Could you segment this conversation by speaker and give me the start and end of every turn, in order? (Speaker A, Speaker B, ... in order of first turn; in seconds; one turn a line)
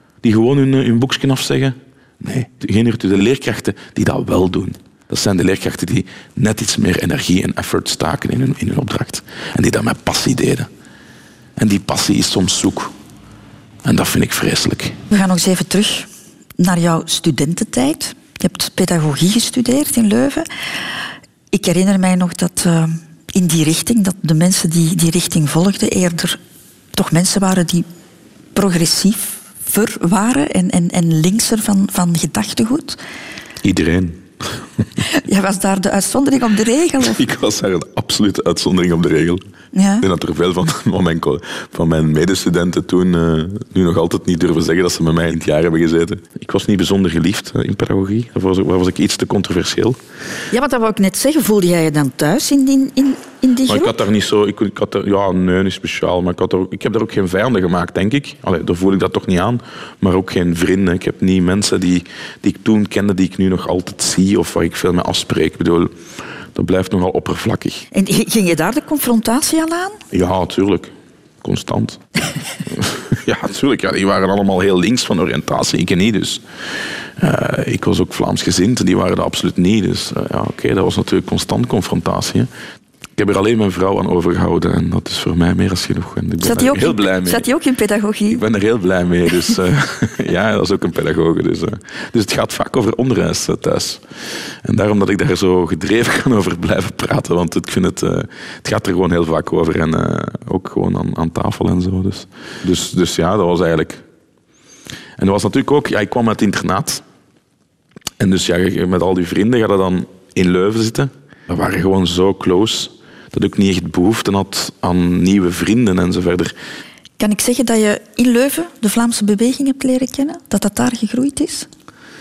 Speaker A: 0.2-10.7
Speaker A: 11.6-12.9
Speaker A: 13.8-15.0
Speaker B: 15.1-20.5
Speaker B: 21.5-26.4
Speaker B: 26.9-27.9
Speaker B: 28.6-33.0
Speaker A: 33.6-34.9
Speaker B: 35.0-37.2
Speaker A: 37.0-39.4
Speaker B: 39.7-40.1
Speaker A: 40.0-50.0
Speaker B: 50.5-54.0
Speaker A: 53.7-65.9
Speaker A: 66.5-67.9
Speaker B: 67.9-70.0
Speaker A: 70.1-72.0
Speaker A: 72.6-76.4
Speaker A: 77.2-82.5
Speaker A: 83.2-87.5
Speaker B: 86.4-88.4
Speaker A: 88.3-104.0
Speaker A: 105.2-107.0
Speaker A: 108.2-116.5
Speaker B: 117.2-121.7